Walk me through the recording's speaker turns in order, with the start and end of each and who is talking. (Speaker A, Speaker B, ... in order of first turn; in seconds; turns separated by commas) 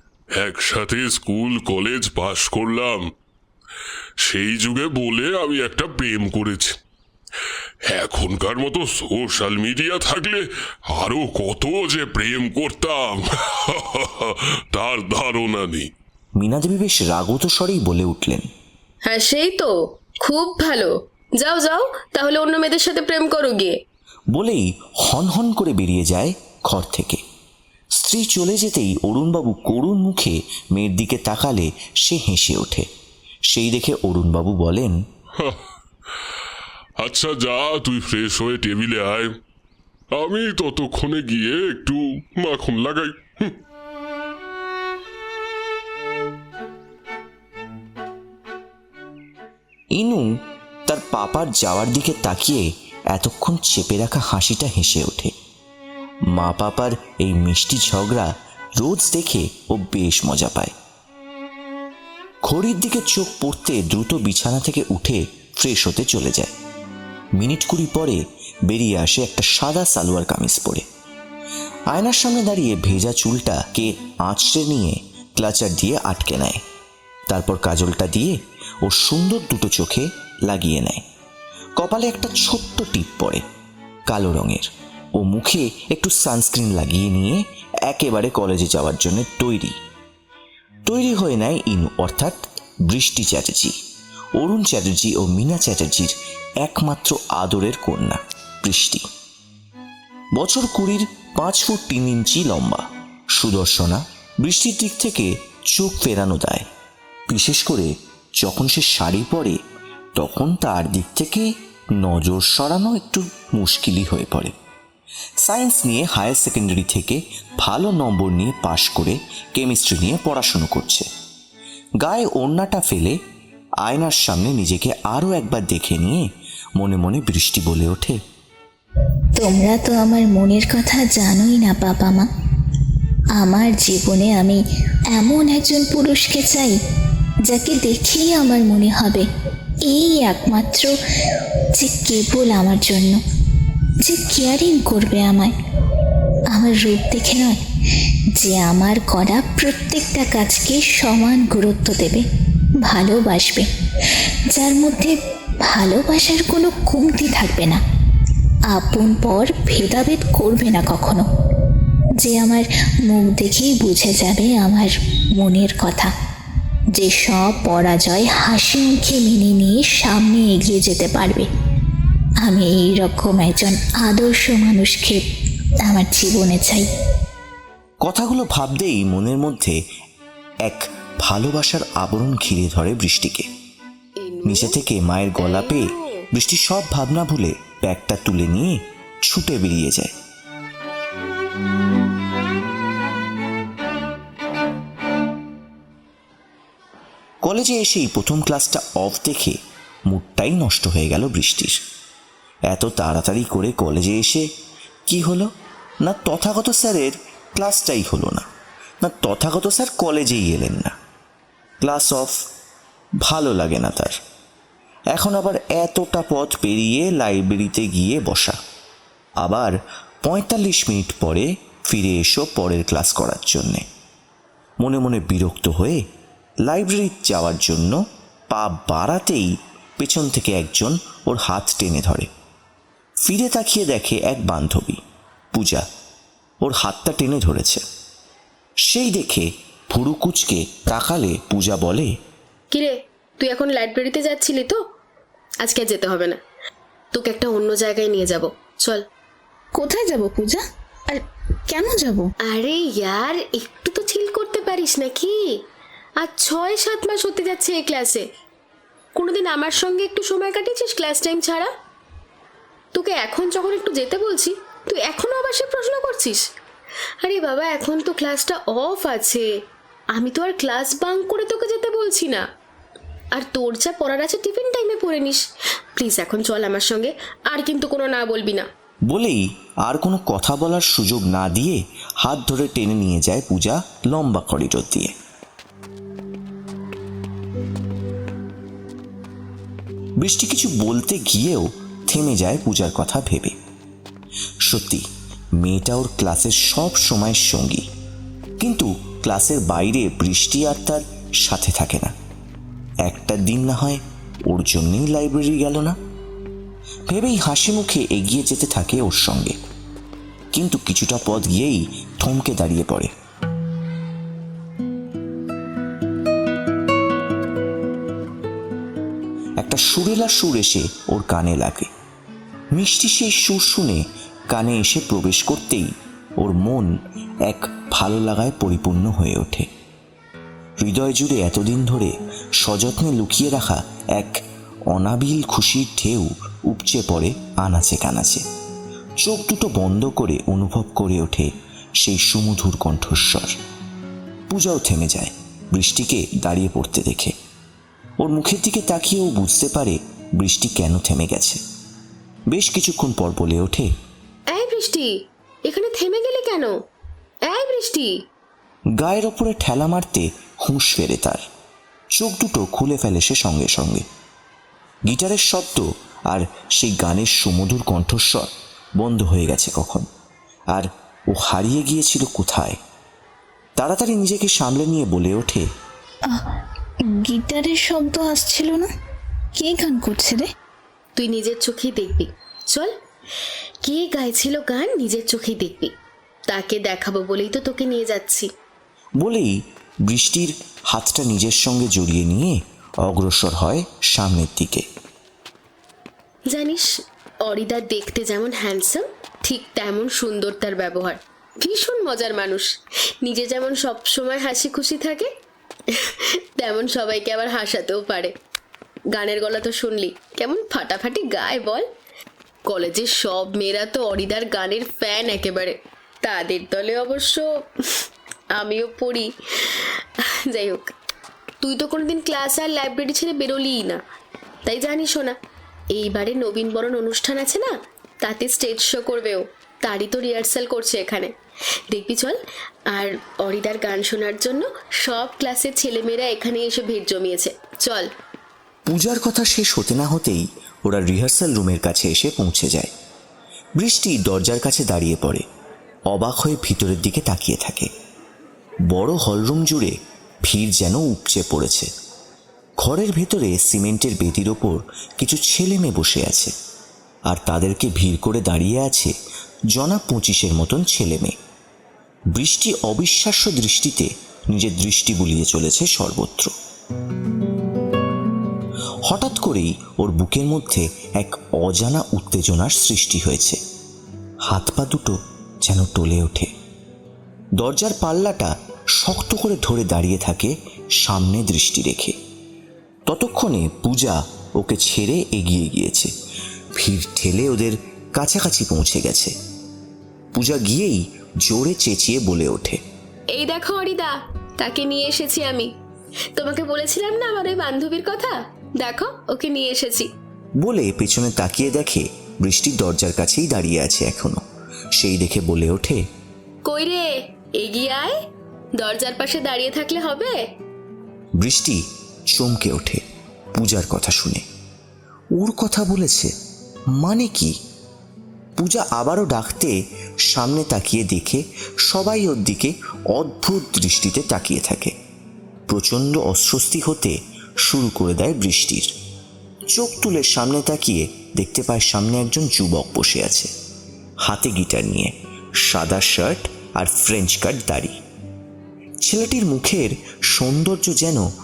Speaker A: 0.3-3.1, Speaker A: 4.2-6.8, Speaker A: 7.8-15.9, Speaker B: 16.4-18.5, Speaker C: 19.1-23.8, Speaker B: 24.3-27.2, Speaker B: 27.9-32.9, Speaker B: 33.5-35.0, Speaker A: 37.0-39.3, Speaker A: 40.1-43.6, Speaker B: 49.9-50.3, Speaker B: 50.9-55.3, Speaker B: 56.3-60.7, Speaker B: 62.4-66.5, Speaker B: 67.3-70.8, Speaker B: 71.9-76.6, Speaker B: 77.3-81.0, Speaker B: 81.8-83.4, Speaker B: 84.1-89.8, Speaker B: 90.8-93.8, Speaker B: 94.4-99.0, Speaker B: 100.3-106.7, Speaker B: 107.3-109.6, Speaker B: 110.2-114.5, Speaker B: 115.4-121.1, Speaker B: 122.0-123.2, Speaker B: 123.8-126.2, Speaker B: 126.8-128.2, Speaker D: 129.4-132.3, Speaker D: 133.3-134.6, Speaker D: 135.1-136.8, Speaker D: 137.4-139.2, Speaker D: 139.8-140.9, Speaker D: 141.7-143.2, Speaker D: 144.0-145.5, Speaker D: 146.5-147.6, Speaker D: 148.3-152.2, Speaker D: 152.8-153.7, Speaker D: 154.5-157.8, Speaker D: 158.7-161.2, Speaker D: 162.2-166.1, Speaker D: 166.9-171.5, Speaker D: 172.4-175.2, Speaker D: 175.8-176.9, Speaker B: 178.0-179.8, Speaker B: 180.6-183.5, Speaker C: 184.2-184.8, Speaker B: 184.4-190.2, Speaker C: 185.4-186.3, Speaker B: 197.4-201.8, Speaker B: 202.7-204.5, Speaker B: 205.1-205.5, Speaker B: 206.0-208.5, Speaker B: 209.0-210.9, Speaker B: 211.8-212.3, Speaker B: 213.2-214.2, Speaker B: 215.1-218.6, Speaker B: 219.4-223.8, Speaker B: 224.8-226.0, Speaker B: 226.6-228.0, Speaker B: 228.5-232.3, Speaker B: 233.2-235.0, Speaker B: 235.5-235.8, Speaker B: 236.6-237.8, Speaker B: 238.9-242.1, Speaker C: 242.7-244.8, Speaker C: 245.6-246.4, Speaker C: 247.1-249.0, Speaker D: 249.7-252.3, Speaker C: 252.4-255.5, Speaker C: 256.2-258.2, Speaker C: 259.1-261.7, Speaker C: 262.9-266.4, Speaker C: 267.2-269.5, Speaker C: 270.1-272.4, Speaker C: 273.3-275.4, Speaker C: 275.9-278.7, Speaker B: 279.1-285.1, Speaker B: 290.2-293.5, Speaker B: 294.6-297.9, Speaker B: 298.6-302.1, Speaker B: 303.1-306.0, Speaker B: 307.1-309.6, Speaker B: 310.5-313.1, Speaker B: 319.6-321.9, Speaker B: 322.7-326.9, Speaker B: 327.4-329.7, Speaker B: 330.8-338.4, Speaker B: 339.2-341.5, Speaker B: 342.0-343.6, Speaker B: 344.5-347.4, Speaker B: 348.2-351.6, Speaker B: 352.5-353.9, Speaker C: 354.5-355.1, Speaker C: 355.6-356.7, Speaker C: 357.5-358.2, Speaker B: 359.0-361.4, Speaker B: 362.1-364.0, Speaker B: 365.1-370.1, Speaker B: 370.7-372.8, Speaker B: 373.8-375.7, Speaker D: 377.1-378.9, Speaker D: 379.5-380.5, Speaker C: 381.2-382.9, Speaker C: 383.8-385.9, Speaker C: 386.5-388.5, Speaker B: 389.2-394.9, Speaker C: 396.5-402.7, Speaker C: 403.2-405.3, Speaker C: 405.9-408.3, Speaker C: 409.1-411.9, Speaker C: 412.7-417.7, Speaker C: 418.5-420.9, Speaker C: 421.6-424.0, Speaker C: 424.6-425.4, Speaker C: 425.9-431.3, Speaker C: 431.9-432.4, Speaker C: 432.9-438.1, Speaker B: 438.9-442.9, Speaker B: 443.8-445.4, Speaker B: 446.1-447.9, Speaker B: 448.9-451.9, Speaker B: 452.8-456.5, Speaker B: 457.3-459.1, Speaker B: 459.7-461.3, Speaker B: 462.3-466.5, Speaker B: 469.1-473.6, Speaker B: 474.5-476.5, Speaker B: 477.6-482.2, Speaker B: 483.1-486.1, Speaker B: 486.8-489.3, Speaker B: 490.3-492.8, Speaker C: 493.3-495.7, Speaker C: 496.3-500.1, Speaker B: 500.6-504.4, Speaker B: 505.0-506.0, Speaker C: 506.6-508.2, Speaker C: 508.8-510.4, Speaker B: 511.4-514.4, Speaker B: 515.4-516.3, Speaker B: 517.0-517.6, Speaker B: 518.6-524.9, Speaker B: 525.7-528.9, Speaker B: 529.7-533.5, Speaker B: 534.2-538.0, Speaker B: 539.0-541.3